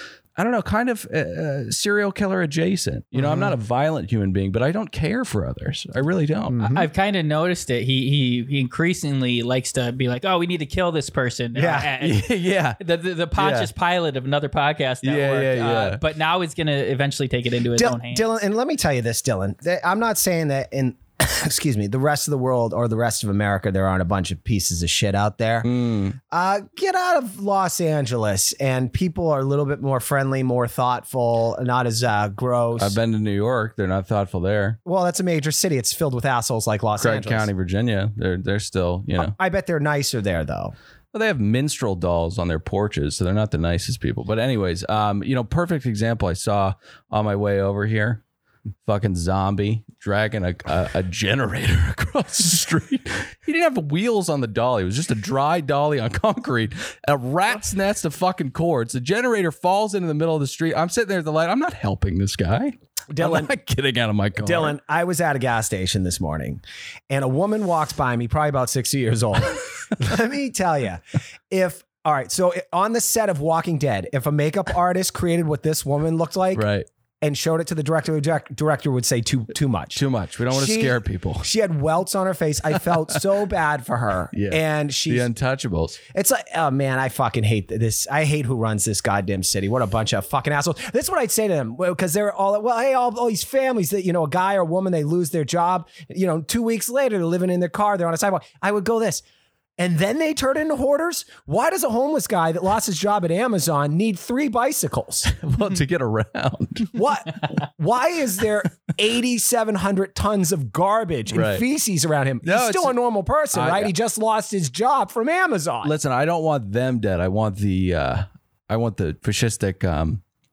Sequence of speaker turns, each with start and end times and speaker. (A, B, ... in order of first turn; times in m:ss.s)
0:00.4-0:06.6 A
0:03.1-0:03.6 B
0:06.5-0:06.9 B
0:06.7-0:18.2 C
0:11.5-0:11.9 B
0:12.0-0:12.8 A
0:13.4-0:13.7 A
0:15.0-0:16.0 A
0:17.7-0:25.7 B
0:25.6-0:26.2 A
0:26.3-0:33.0 B
0:32.8-0:34.8 A
0:34.8-0:37.5 B
0:37.0-0:39.3 A
0:39.2-0:40.7 B
0:41.1-0:48.2 A
0:48.8-1:04.7 A
1:03.1-1:03.5 B
1:04.4-1:16.6 B
1:16.5-1:16.8 A
1:17.2-1:25.3 B
1:19.9-1:21.5 A
1:24.3-1:26.0 A
1:26.1-1:39.2 B
1:39.8-1:45.3 B
1:45.3-1:47.0 A
1:46.9-1:55.9 B
1:51.3-1:51.6 A
1:52.4-1:53.0 A
1:53.5-1:53.9 A
1:55.8-2:00.2 A